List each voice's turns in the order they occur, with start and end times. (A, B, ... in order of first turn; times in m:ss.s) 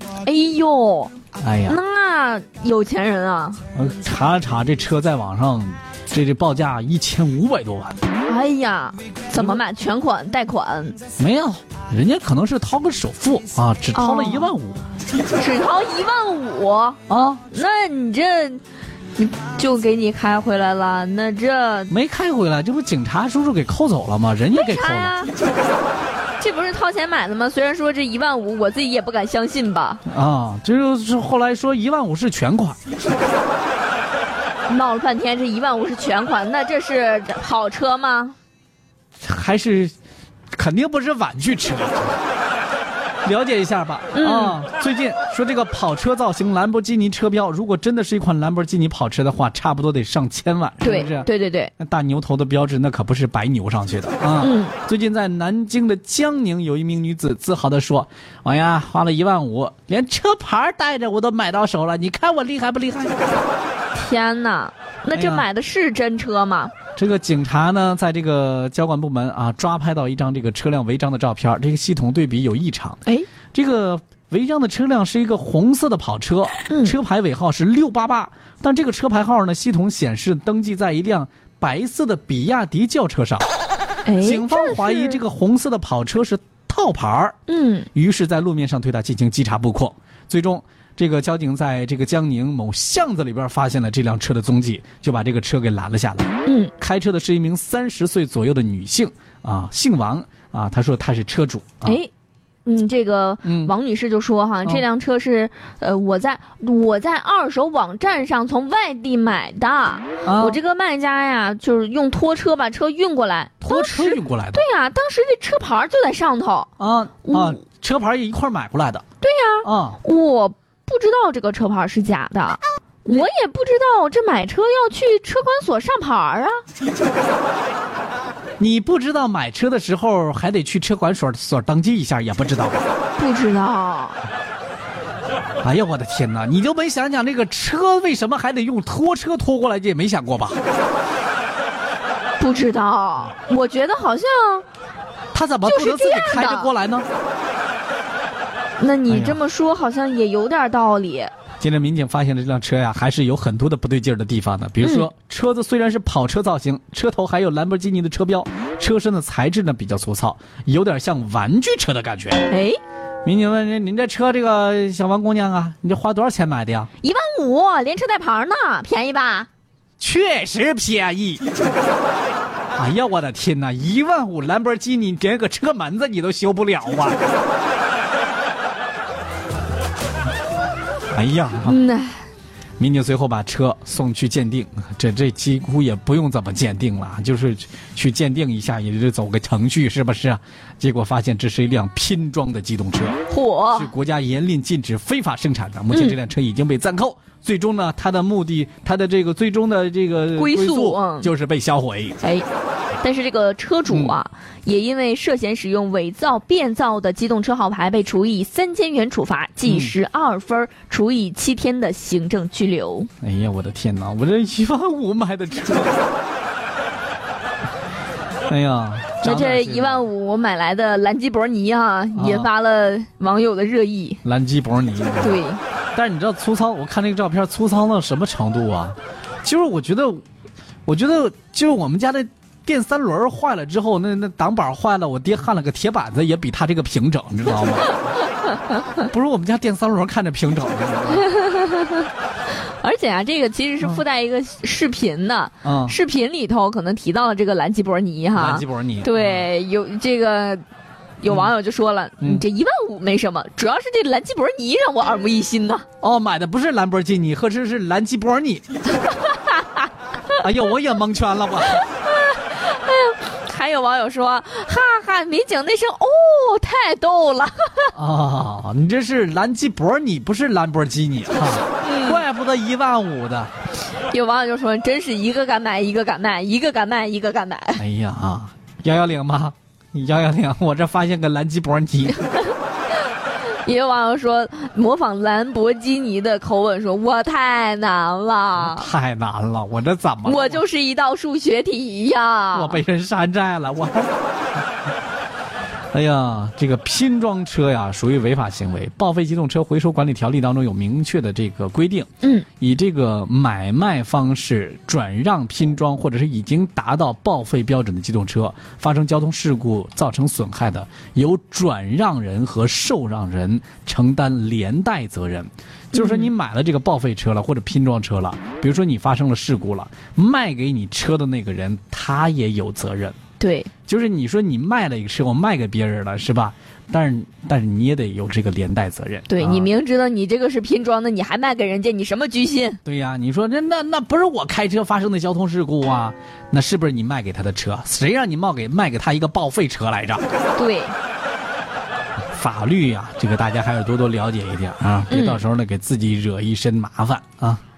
0:00.2-0:01.1 A
0:01.4-0:01.8 B
0:01.7-0:03.6 A
0:03.8-0:08.0 B
0:08.2-0:11.0 A
0:11.2-0:14.9 B
0:13.9-0:14.5 A
0:15.3-0:17.0 A
0:17.1-0:17.4 B
0:17.5-0:18.6 A
0:19.2-0:21.9 A
0:21.9-0:25.1 B
0:24.5-0:25.3 A
0:26.4-0:30.0 A
0:30.1-0:32.8 B
0:34.7-0:38.4 A
0:39.2-0:39.9 B
0:40.5-0:42.2 B
0:43.2-1:03.2 B
0:44.1-0:44.6 A
0:50.8-0:51.7 A
0:54.4-0:54.8 A
1:03.9-1:06.7 A
1:05.1-1:05.5 B
1:07.0-1:13.0 B
1:13.5-1:23.5 B
1:16.7-1:17.0 A
1:24.1-1:25.2 A
1:24.2-1:27.4 B
1:27.5-1:27.9 A
1:27.9-1:42.0 B
1:36.5-1:36.7 A
1:41.8-1:42.1 A
1:42.6-1:56.7 A
1:43.4-1:43.7 B
1:50.2-1:50.6 B
1:53.6-1:54.6 B
1:56.8-1:59.0 B
1:57.2-1:57.6 A
1:59.2-2:06.6 A
1:59.6-2:00.0 B
2:08.6-2:12.9 B
2:13.2-2:14.2 A
2:15.6-2:20.6 B
2:22.4-2:24.6 A
2:25.3-2:27.1 B
2:25.7-2:26.7 A
2:28.8-2:31.3 A
2:29.1-2:29.4 B
2:31.6-2:42.5 B
2:34.8-2:35.1 A
2:42.5-2:42.8 A
2:43.2-2:46.9 B
2:47.0-2:49.5 A
2:50.0-2:51.4 B
2:52.8-2:57.2 B
3:01.1-3:01.8 B
3:01.6-3:02.2 A
3:02.8-3:13.2 B
3:13.3-3:13.9 A
3:13.7-3:22.2 B
3:15.9-3:16.2 A
3:20.4-3:21.3 A
3:22.2-3:22.5 A
3:23.0-3:33.1 A
3:23.9-3:24.2 B
3:29.7-3:30.0 B
3:33.2-3:36.0 B
3:38.5-3:40.1 B
3:39.2-3:44.2 A
3:42.2-3:42.5 B
3:44.2-3:45.4 B
3:45.2-3:45.6 A
3:46.0-3:50.2 B
3:50.9-3:58.0 B
3:59.0-4:01.3 B
4:01.1-4:10.6 A
4:05.6-4:06.0 B
4:08.3-4:09.5 B
4:11.2-4:15.9 A
4:11.3-4:11.5 B
4:16.0-4:18.6 B
4:19.1-4:19.9 A
4:20.3-4:21.9 B
4:21.7-4:27.9 A
4:27.9-4:33.5 B
4:31.8-4:32.2 A
4:34.0-4:37.8 A
4:37.8-4:42.3 B
4:43.1-4:48.9 A
4:48.6-4:50.6 B
4:50.2-4:52.8 A
4:52.5-4:54.1 B
4:55.9-5:23.2 B
5:02.2-5:02.5 A
5:15.9-5:16.3 A
5:23.4-5:23.7 A
5:23.9-5:29.7 B
5:29.3-5:32.8 A
5:32.8-5:40.2 B
5:40.6-5:41.0 A
5:42.3-5:47.6 B
5:45.1-5:45.4 A